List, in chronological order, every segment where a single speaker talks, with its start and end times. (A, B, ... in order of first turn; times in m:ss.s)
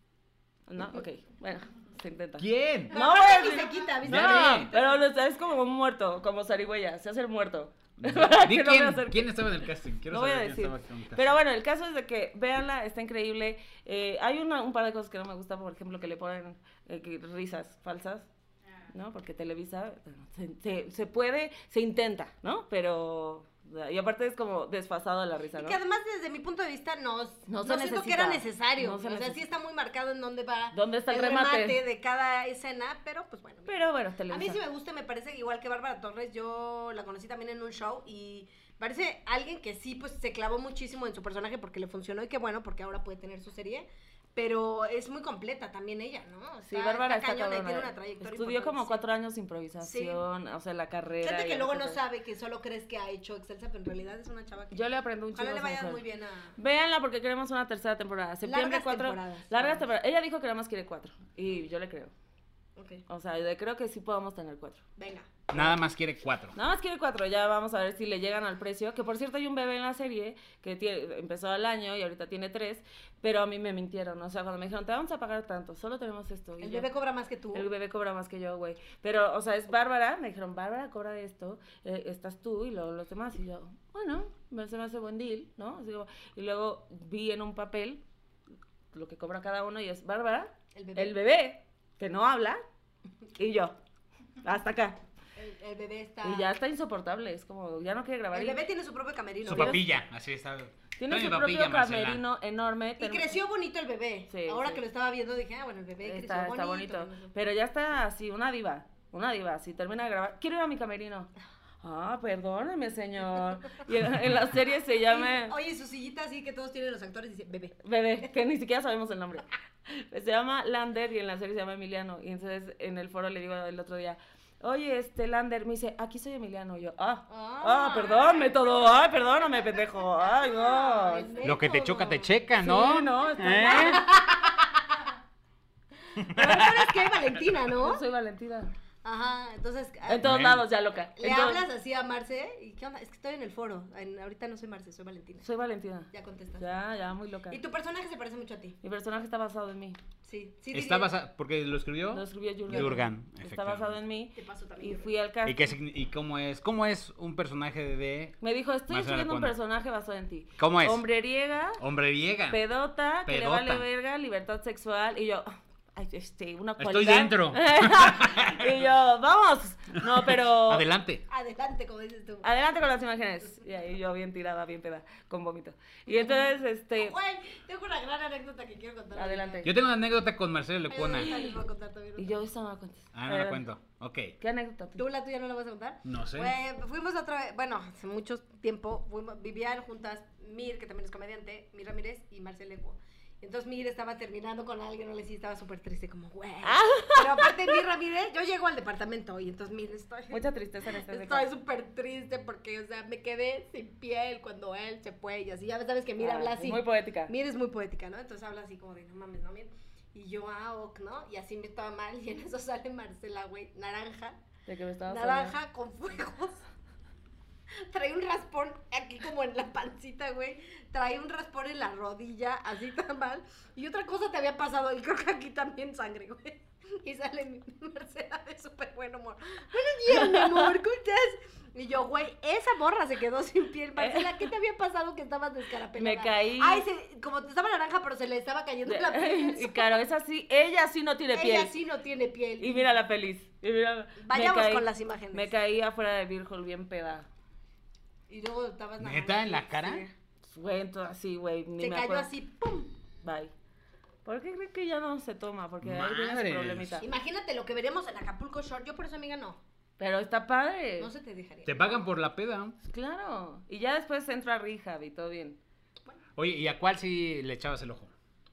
0:00.7-0:18.3 A
0:02.4-0:03.0 B
0:02.9-0:04.9 C
0:04.0-0:04.7 B
0:08.0-0:11.3 B
0:18.9-0:25.8 A
0:25.5-0:33.8 C
0:27.5-0:29.4 A
0:30.7-0:31.8 A
0:33.7-0:34.6 A
0:34.3-0:49.0 C
0:46.6-0:52.0 A
0:49.8-0:50.2 C
0:51.2-0:56.5 C
0:54.7-0:56.0 A
0:56.6-1:02.1 A
0:58.4-0:59.8 C
1:02.8-1:03.0 C
1:03.1-1:04.8 A
1:05.0-1:05.6 C
1:05.5-1:06.6 B
1:06.5-1:16.9 A
1:16.6-1:17.7 C
1:17.5-1:28.0 A
1:28.9-1:32.6 A
1:30.7-1:31.1 C
1:33.4-1:33.8 A
1:34.4-1:35.0 A
1:35.4-1:36.5 C
1:36.2-1:38.6 A
1:38.3-1:39.8 C
1:39.4-1:42.2 B
1:39.5-1:39.8 A
1:41.0-1:43.3 A
1:43.0-1:47.3 C
1:44.3-1:44.8 A
1:46.0-1:51.3 A
1:51.8-1:55.5 A
1:55.1-1:57.8 C
1:57.8-2:11.3 A
2:07.3-2:08.6 C
2:10.2-2:12.3 C
2:11.4-2:14.1 B
2:12.6-2:14.0 A
2:13.5-2:15.0 C
2:16.2-2:17.1 B
2:16.2-2:18.0 C
2:17.8-2:18.7 A
2:19.0-2:20.3 C
2:20.0-2:21.6 A
2:20.2-2:20.6 B
2:21.2-2:25.4 C
2:25.4-2:26.1 A
2:26.1-2:26.7 C
2:26.6-2:27.6 A
2:27.5-2:28.8 C
2:28.8-2:30.0 A
2:30.2-2:31.1 C
2:30.7-2:34.0 B
2:32.1-2:35.7 A
2:34.3-2:35.1 C
2:35.4-2:38.4 B
2:38.4-2:41.8 A
2:38.9-2:39.5 B
2:40.6-2:41.0 B
2:41.8-2:42.6 B
2:42.5-2:50.8 A
2:43.2-2:43.8 B
2:46.8-2:48.8 B
2:50.2-2:51.2 B
2:51.3-2:52.5 C
2:52.4-2:57.1 A
2:56.1-2:59.7 C
2:59.1-2:59.7 A
2:59.6-3:01.4 B
3:00.9-3:02.5 C
3:01.2-3:01.6 A
3:02.2-3:03.6 A
3:03.1-3:04.4 B
3:04.4-3:05.0 A
3:05.0-3:34.4 C
3:06.0-3:06.5 B
3:16.6-3:17.7 A
3:20.3-3:21.5 A
3:26.2-3:27.3 A
3:34.7-3:35.6 A
3:35.1-3:36.6 C
3:37.7-4:00.0 C
3:50.1-3:50.7 A
3:54.0-3:54.4 A
3:55.9-3:56.8 A
3:58.8-4:01.7 A
4:01.3-4:02.9 C
4:02.6-4:07.3 A
4:04.2-4:05.5 C
4:08.3-4:10.1 C
4:09.0-4:10.0 B
4:10.5-4:12.3 A
4:11.8-4:12.9 C
4:13.2-4:13.5 A
4:14.2-4:17.1 A
4:15.8-4:17.0 B
4:17.0-4:19.6 C
4:20.0-4:21.1 A
4:21.0-4:22.0 C
4:21.6-4:22.8 B
4:22.8-4:25.6 A
4:26.4-4:28.1 B